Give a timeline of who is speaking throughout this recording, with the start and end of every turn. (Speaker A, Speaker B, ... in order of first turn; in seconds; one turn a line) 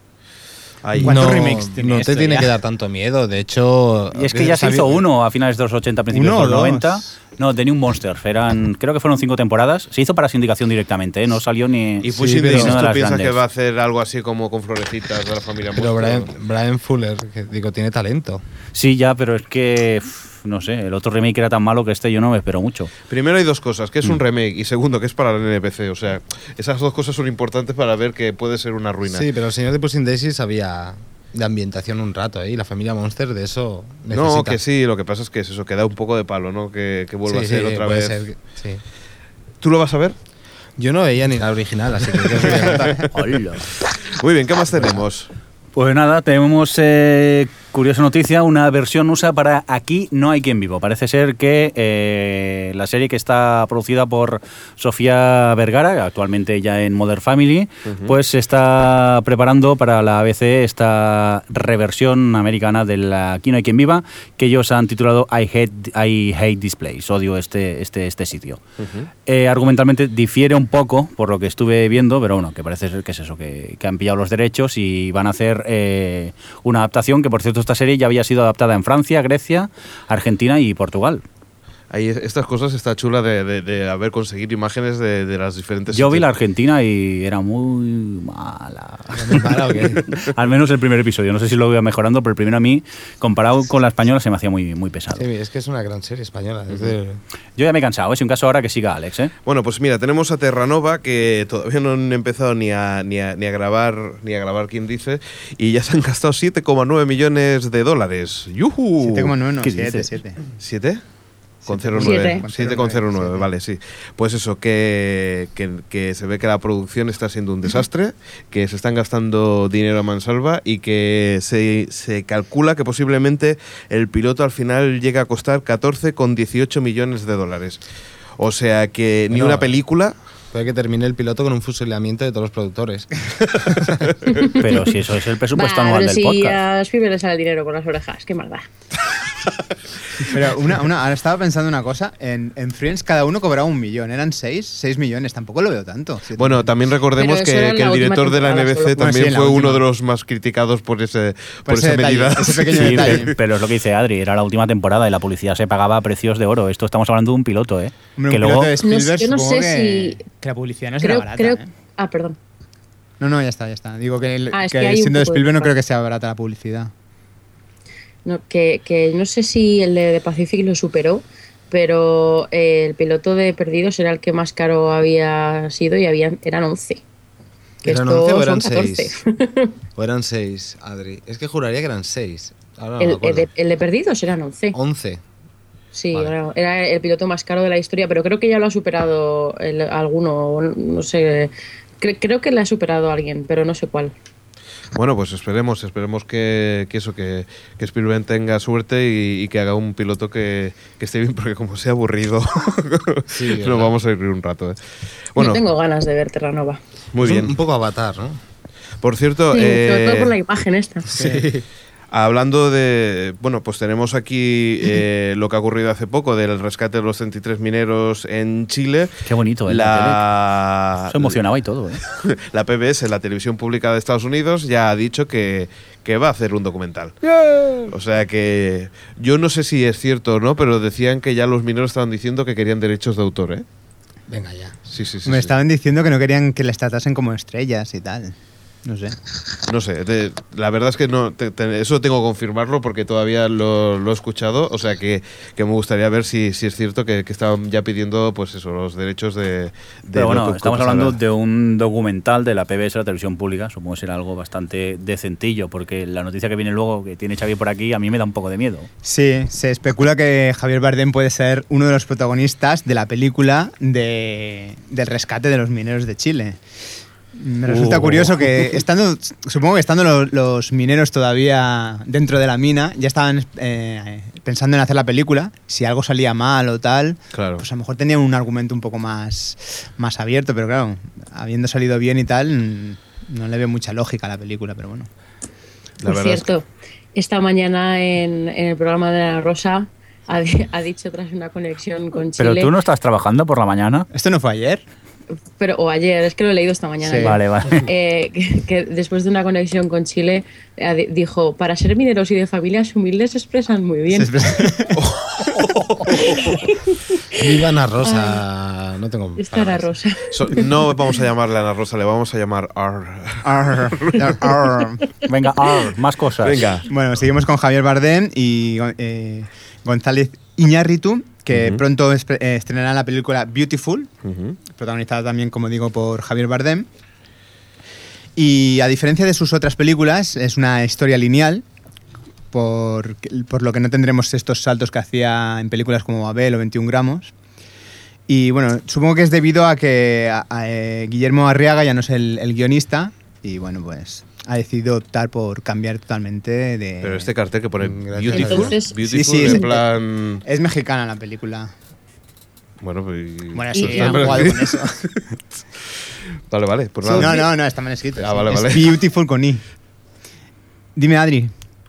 Speaker A: 0.8-1.5
Speaker B: 1.0-2.5
Speaker C: 1.0-5.0
Speaker D: 4.2-13.4
Speaker B: 6.1-7.1
Speaker A: 12.0-16.3
Speaker C: 12.1-12.8
Speaker C: 15.8-18.4
Speaker D: 18.7-22.9
Speaker A: 23.1-29.2
Speaker C: 29.1-34.6
Speaker A: 34.1-38.2
Speaker C: 37.3-38.8
Speaker A: 39.6-40.1
Speaker C: 40.8-42.9
Speaker A: 42.5-42.9
Speaker D: 43.1-43.7
Speaker A: 44.1-45.3
Speaker D: 45.8-68.6
Speaker A: 57.9-58.1
Speaker A: 68.8-69.1
Speaker D: 69.3-81.2
Speaker A: 81.9-86.3
Speaker D: 85.9-89.5
Speaker C: 89.1-90.0
Speaker D: 90.2-95.2
Speaker C: 95.2-97.2
Speaker D: 97.6-99.3
Speaker A: 99.5-109.3
Speaker B: 109.0-110.4
Speaker D: 109.6-110.1
Speaker A: 110.6-111.0
Speaker B: 111.6-113.5
Speaker A: 111.7-127.8
Speaker E: 112.0-112.5
Speaker A: 128.4-130.2
Speaker C: 129.3-129.7
Speaker C: 130.5-133.1
Speaker E: 134.3-134.6
Speaker D: 134.6-136.6
Speaker E: 135.6-138.7
Speaker B: 140.3-146.7
Speaker A: 146.4-153.3
Speaker E: 147.2-149.0
Speaker B: 149.0-149.8
Speaker B: 151.7-153.3
Speaker D: 152.8-158.7
Speaker B: 158.2-161.7
Speaker E: 158.8-160.2
Speaker E: 161.0-162.4
Speaker B: 163.2-166.9
Speaker E: 164.5-165.7
Speaker E: 168.2-177.0
Speaker C: 177.8-179.2
Speaker E: 177.8-179.7
Speaker C: 180.0-183.5
Speaker E: 183.0-184.8
Speaker C: 184.7-185.2
Speaker E: 185.9-194.1
Speaker A: 194.9-204.8
Speaker C: 203.3-204.0
Speaker A: 205.3-205.7
Speaker E: 205.4-206.8
Speaker A: 207.1-207.5
Speaker C: 207.2-208.4
Speaker A: 209.0-210.3
Speaker E: 209.5-211.1
Speaker C: 211.1-211.7
Speaker B: 211.2-211.5
Speaker A: 212.1-219.1
Speaker D: 219.3-220.2
Speaker A: 219.7-221.4
Speaker D: 221.1-222.0
Speaker A: 222.1-227.2
Speaker A: 227.9-233.7
Speaker C: 234.3-234.8
Speaker A: 234.9-235.5
Speaker B: 235.2-239.2
Speaker A: 239.7-251.2
Speaker D: 250.1-258.9
Speaker B: 259.0-266.6
Speaker B: 267.4-285.1
Speaker D: 267.7-268.6
Speaker A: 277.3-277.6
Speaker A: 286.0-286.5
Speaker E: 286.0-292.7
Speaker D: 292.4-294.1
Speaker B: 294.1-294.8
Speaker E: 295.6-304.3
Speaker B: 297.0-297.4
Speaker D: 297.2-297.9
Speaker B: 304.1-305.0
Speaker A: 305.0-306.5
Speaker E: 306.1-307.4
Speaker C: 307.3-309.9
Speaker E: 308.0-308.4
Speaker E: 309.4-310.6
Speaker A: 310.3-314.7
Speaker B: 313.4-315.0
Speaker D: 315.2-316.6
Speaker A: 316.4-316.9
Speaker B: 316.9-324.1
Speaker A: 321.5-321.8
Speaker A: 324.2-324.6
Speaker B: 324.7-326.9
Speaker B: 328.4-331.6
Speaker B: 332.5-337.3
Speaker B: 338.3-347.3
Speaker A: 347.0-350.4
Speaker C: 347.8-348.8
Speaker E: 348.3-349.7
Speaker B: 348.6-349.9
Speaker B: 350.4-351.7
Speaker A: 352.8-354.8
Speaker B: 353.5-355.0
Speaker E: 353.7-354.3
Speaker A: 356.5-357.5
Speaker B: 357.0-359.6
Speaker A: 358.2-359.0
Speaker B: 361.0-361.5